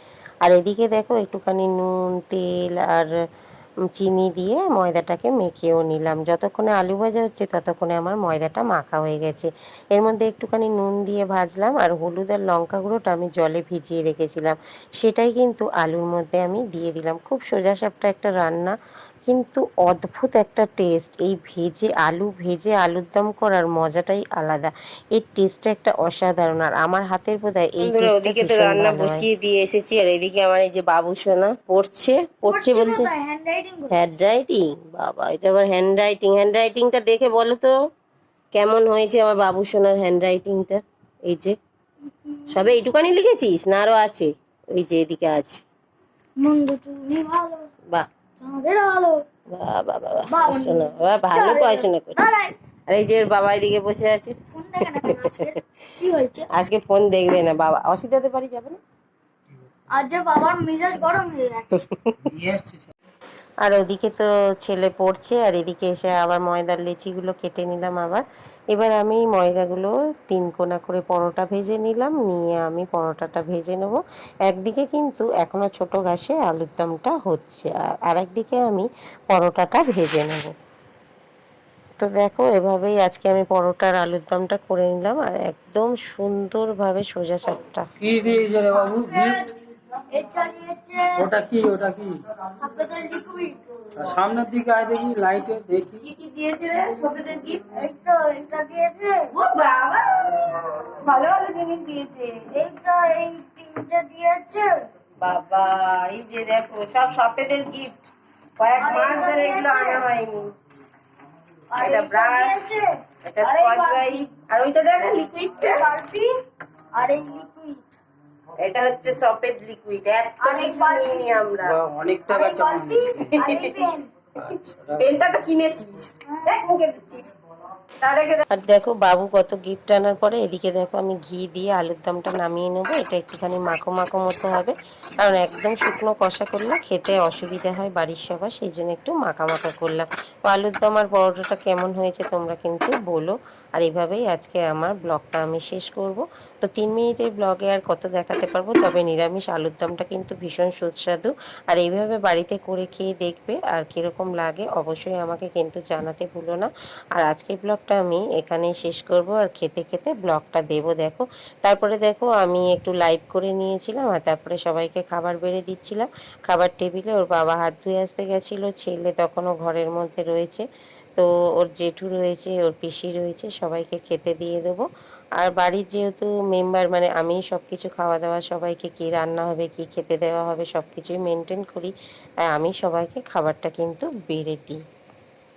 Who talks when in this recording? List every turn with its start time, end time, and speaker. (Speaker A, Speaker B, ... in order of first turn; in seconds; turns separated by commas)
Speaker A: 0.4-3.1, Speaker A: 4.0-18.8, Speaker A: 19.3-29.2, Speaker B: 27.8-33.1, Speaker C: 32.5-34.2, Speaker B: 33.9-37.7, Speaker B: 38.5-41.5, Speaker C: 42.3-42.9, Speaker B: 42.5-45.6, Speaker C: 46.4-47.7, Speaker C: 48.4-49.2, Speaker B: 49.5-55.5, Speaker C: 50.3-52.5, Speaker C: 54.5-56.5, Speaker B: 56.5-58.8, Speaker C: 59.9-61.9, Speaker B: 61.9-62.3, Speaker D: 62.2-62.9, Speaker A: 63.6-80.5, Speaker A: 82.0-87.9, Speaker D: 88.0-89.5, Speaker C: 88.8-89.5, Speaker C: 90.1-91.3, Speaker D: 91.2-92.2, Speaker C: 92.6-93.6, Speaker D: 94.0-96.0, Speaker B: 96.0-97.8, Speaker C: 97.7-99.3, Speaker B: 99.3-102.4, Speaker C: 102.5-104.7, Speaker B: 105.2-110.5, Speaker C: 108.8-110.1, Speaker C: 111.7-114.3, Speaker B: 111.8-112.6, Speaker B: 113.3-115.9, Speaker C: 115.6-116.3, Speaker C: 117.0-118.0, Speaker B: 118.6-121.8, Speaker C: 120.4-121.5, Speaker D: 121.6-123.4, Speaker C: 122.3-124.1, Speaker B: 123.4-123.8, Speaker B: 124.4-127.3, Speaker D: 124.5-125.1, Speaker C: 126.3-126.6, Speaker B: 128.0-128.4, Speaker A: 128.5-170.7, Speaker A: 171.2-174.8, Speaker A: 175.4-181.9, Speaker A: 182.5-184.8